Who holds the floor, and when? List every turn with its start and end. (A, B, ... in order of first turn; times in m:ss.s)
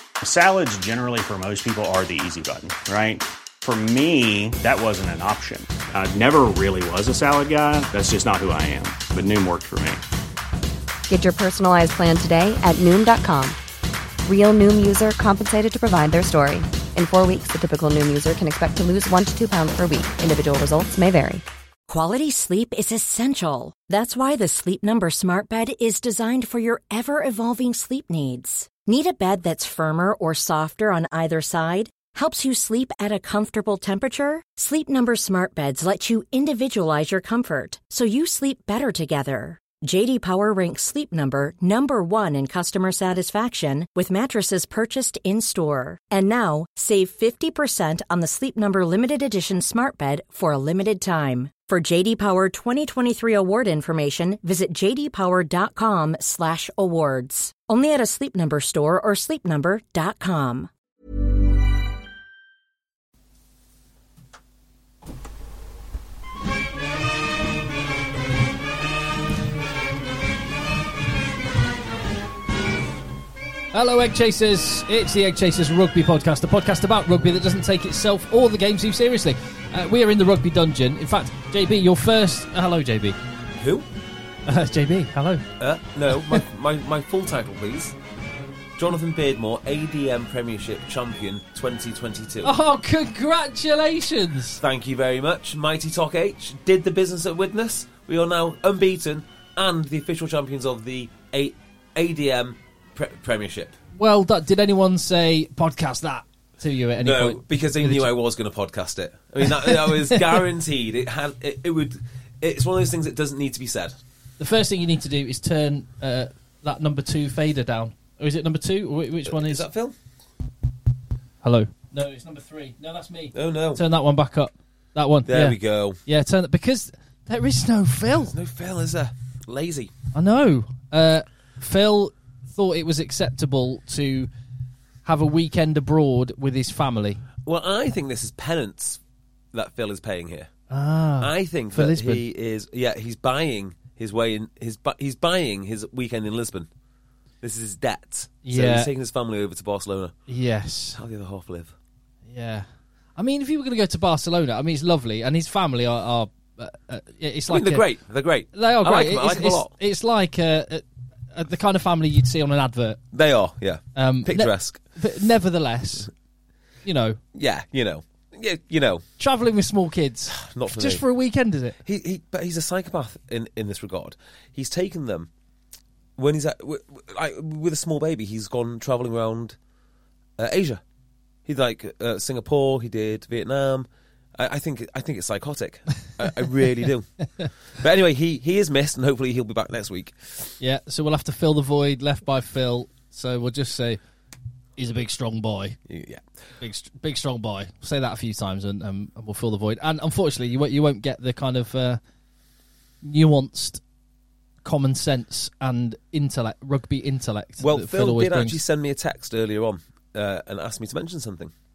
0:00.2-0:10.0 A
0:11.1-0:13.6 B
0:14.2-0:21.4 B
0:21.9-1:00.7 C
1:13.7-1:23.2 D
1:23.6-1:23.9 E
1:24.4-1:25.5 D
1:25.6-1:27.9 E
1:28.8-1:32.5 E
1:32.4-1:34.6 D
1:34.6-1:43.8 E
1:43.9-1:48.1 D
1:47.0-1:54.0 E
1:49.4-1:50.4 D
1:54.4-1:59.6 D
1:59.3-1:59.9 E
2:01.4-2:08.3 D
2:03.3-2:03.8 E
2:05.2-2:06.0 E
2:08.2-2:09.9 E
2:10.1-2:14.3 D
2:15.0-2:17.2 D
2:17.4-2:19.0 E
2:19.5-2:20.5 E
2:20.7-2:22.2 D
2:21.2-2:26.7 E
2:27.4-2:30.1 E
2:28.4-2:28.9 D
2:30.3-2:31.0 D
2:31.0-2:31.7 E
2:32.3-2:37.8 D
2:37.5-2:39.7 E
2:38.5-2:43.0 D
2:43.1-2:44.8 E
2:44.0-2:46.1 D
2:46.8-2:47.2 D
2:47.3-2:49.0 E
2:49.2-2:51.8 D
2:50.3-2:51.0 E
2:51.8-2:55.3 E
2:56.2-2:59.6 E
3:00.4-3:00.8 E
3:01.4-3:07.1 E
3:07.8-3:10.5 E
3:10.6-3:14.0 D
3:14.8-3:15.8 D
3:15.9-3:16.2 E
3:16.6-3:22.0 D
3:23.0-3:23.8 D
3:24.6-3:28.6 D
3:27.6-3:31.5 E